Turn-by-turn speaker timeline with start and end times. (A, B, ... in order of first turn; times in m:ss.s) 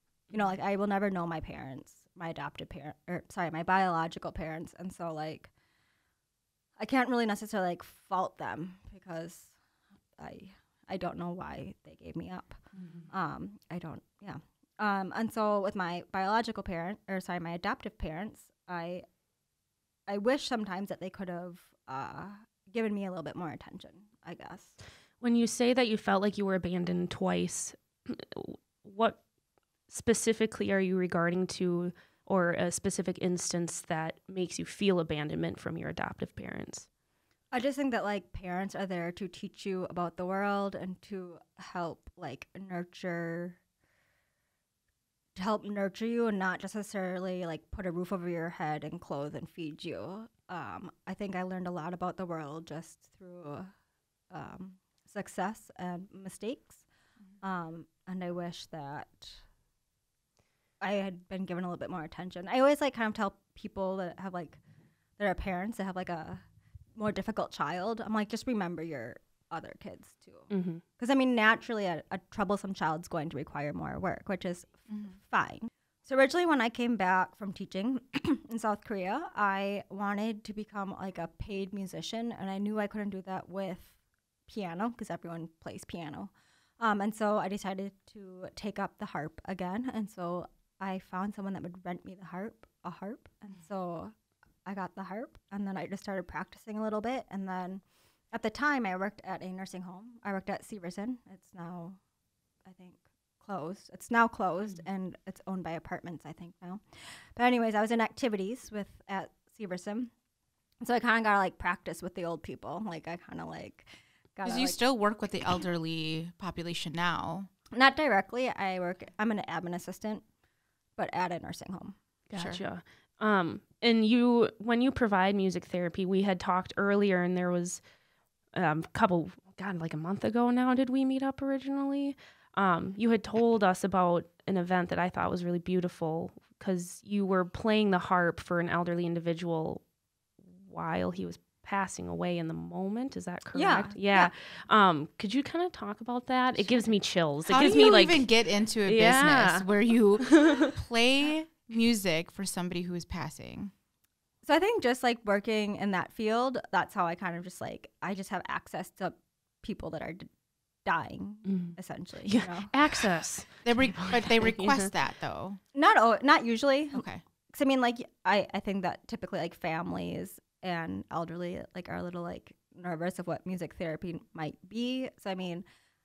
0:00.3-0:05.5 A
0:06.8-0:09.6 A
0:10.2-0:19.0 A
0:12.8-0:13.1 B
0:20.1-0:24.8 A
0:25.2-0:29.2 C
0:29.9-0:36.9 C
0:37.5-0:43.6 A
0:45.4-0:53.7 A
0:54.3-0:56.8 A
0:57.4-0:59.4 A
1:00.8-1:04.6 A
1:05.2-1:06.4 A
1:07.0-1:34.1 A
1:10.5-1:10.8 C
1:34.6-1:42.0 A
1:42.6-1:50.1 A
1:50.8-1:54.8 A
1:54.4-1:57.5 B
1:57.7-2:00.2 A
2:01.0-2:02.0 A
2:02.3-2:07.8 C
2:02.4-2:02.6 B
2:08.5-2:19.8 C
2:20.4-2:28.3 C
2:23.5-2:24.3 A
2:26.6-2:26.9 A
2:27.5-2:33.7 B
2:28.8-2:29.7 C
2:30.2-2:30.7 C
2:34.4-2:40.3 A
2:40.8-2:43.0 A
2:41.4-2:44.9 C
2:43.6-2:45.6 B
2:45.7-2:55.6 A
2:46.9-2:47.2 B